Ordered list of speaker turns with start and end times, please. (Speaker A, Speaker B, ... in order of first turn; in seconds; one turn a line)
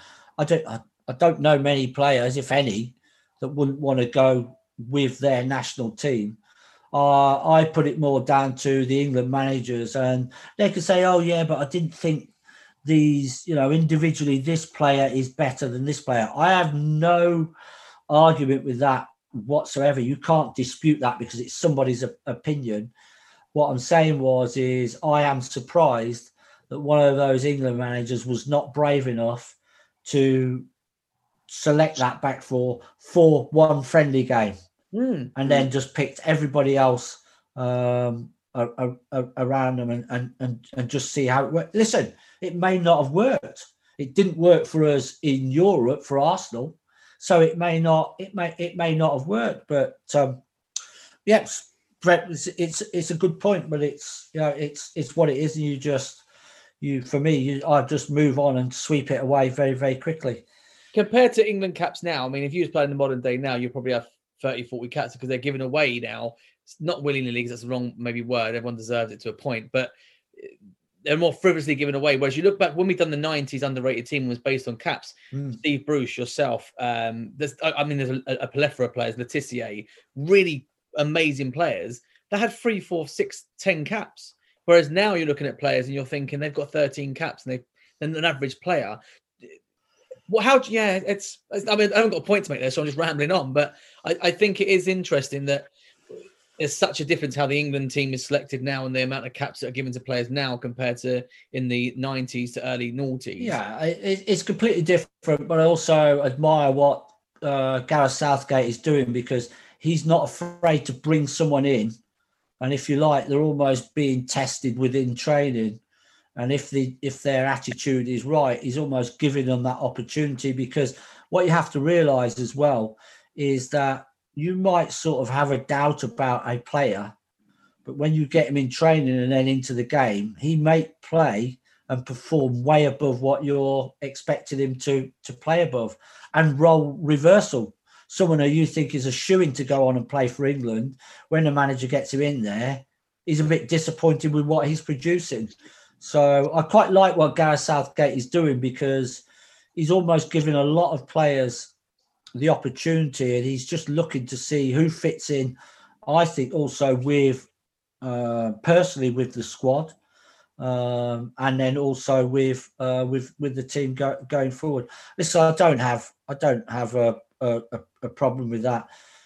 Speaker A: 0.4-6.4
Speaker A: 6.9-12.3
Speaker A: 12.8-17.5
Speaker A: 18.1-22.9
Speaker A: 23.5-30.7
Speaker A: 31.5-34.5
Speaker B: 34.9-35.3
Speaker A: 35.4-50.4
Speaker A: 51.3-56.2
Speaker A: 56.8-60.4
Speaker B: 60.9-70.5
Speaker B: 71.0-89.5
Speaker A: 75.3-75.6
Speaker B: 90.3-95.7
Speaker B: 96.6-103.5
Speaker A: 103.4-112.0
Speaker A: 112.6-115.8
Speaker A: 116.4-127.1
Speaker A: 127.8-149.2
Speaker A: 149.8-151.7
Speaker A: 152.4-157.5
Speaker A: 158.0-159.9
Speaker A: 160.6-168.9